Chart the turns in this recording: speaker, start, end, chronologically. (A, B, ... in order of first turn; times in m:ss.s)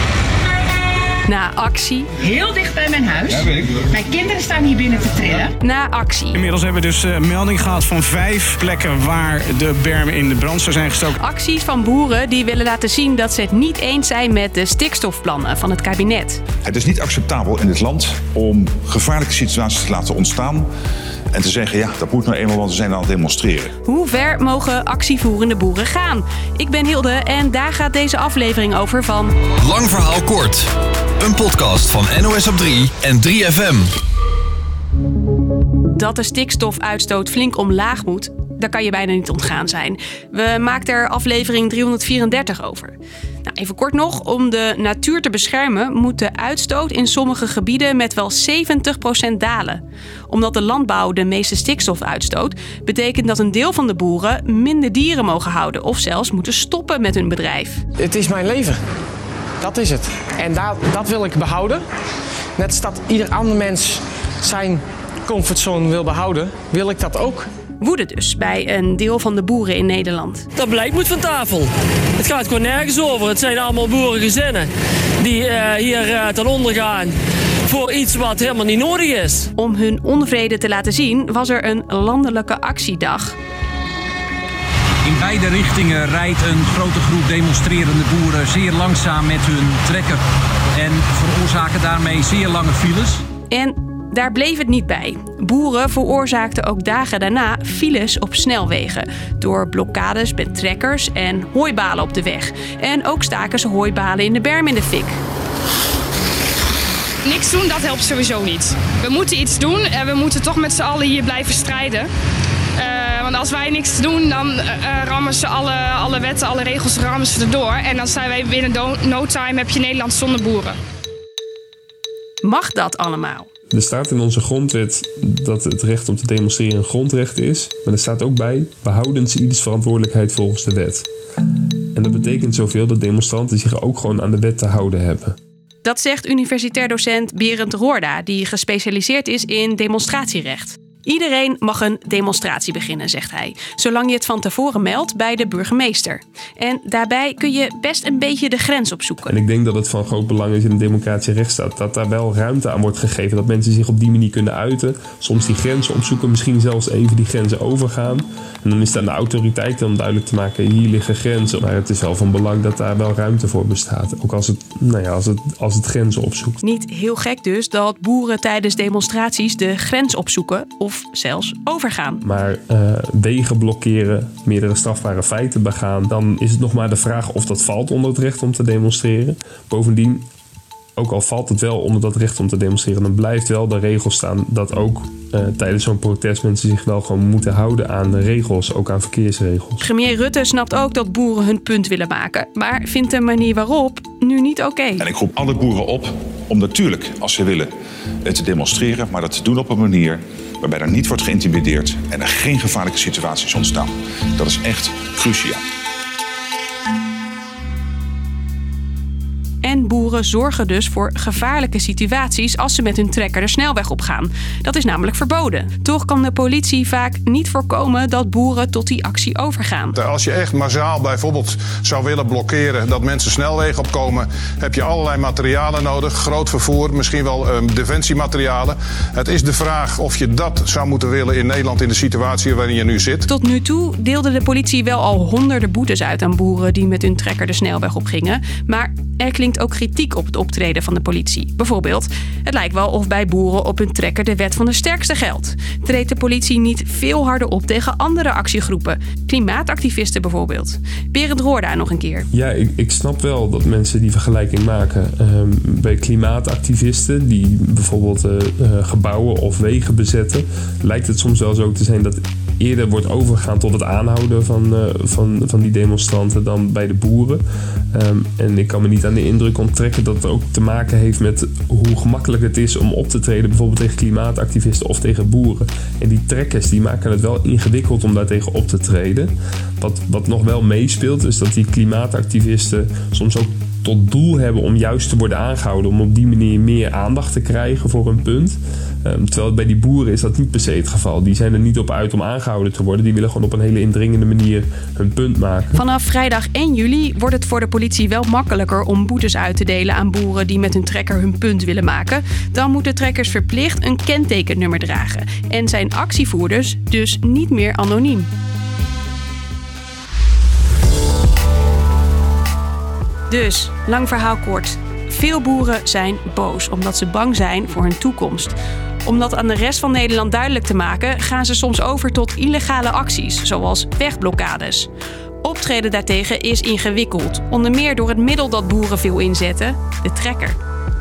0:01.3-0:02.1 A
0:02.2-0:05.5 B
0:05.6-0:06.4 A
0:06.3-0:11.1 C
0:11.2-0:16.4 A
0:16.6-0:20.6 D
0:21.3-0:23.7 D
0:23.8-0:29.3 A
0:29.6-0:33.9 E
0:35.9-0:57.8 A
0:58.0-0:58.8 F
0:59.6-1:01.8 F
1:02.6-1:07.5 F
1:07.8-1:10.4 A
1:10.6-1:11.6 G
1:12.2-1:14.6 G
1:15.2-1:17.1 G
1:17.7-1:19.4 G
1:19.6-1:23.4 A
1:25.0-1:30.2 H
1:30.8-1:33.2 H
1:33.5-1:45.2 A
1:47.2-1:52.1 I
1:52.8-2:00.8 I
2:02.4-2:03.5 A
2:03.7-2:11.0 J
2:11.9-2:15.4 J
2:15.8-2:29.3 A
2:29.3-2:46.6 J
2:46.6-2:52.2 A
2:52.2-3:00.2 J
3:01.0-3:09.8 J
3:09.8-3:15.0 A
3:15.0-3:17.7 D
3:18.2-3:25.6 D
3:29.6-3:39.9 A
3:39.9-3:53.3 K
3:53.3-4:12.3 A
4:12.3-4:55.8 J
4:55.7-5:08.3 A
5:13.3-5:24.9 A
5:25.4-5:30.6 A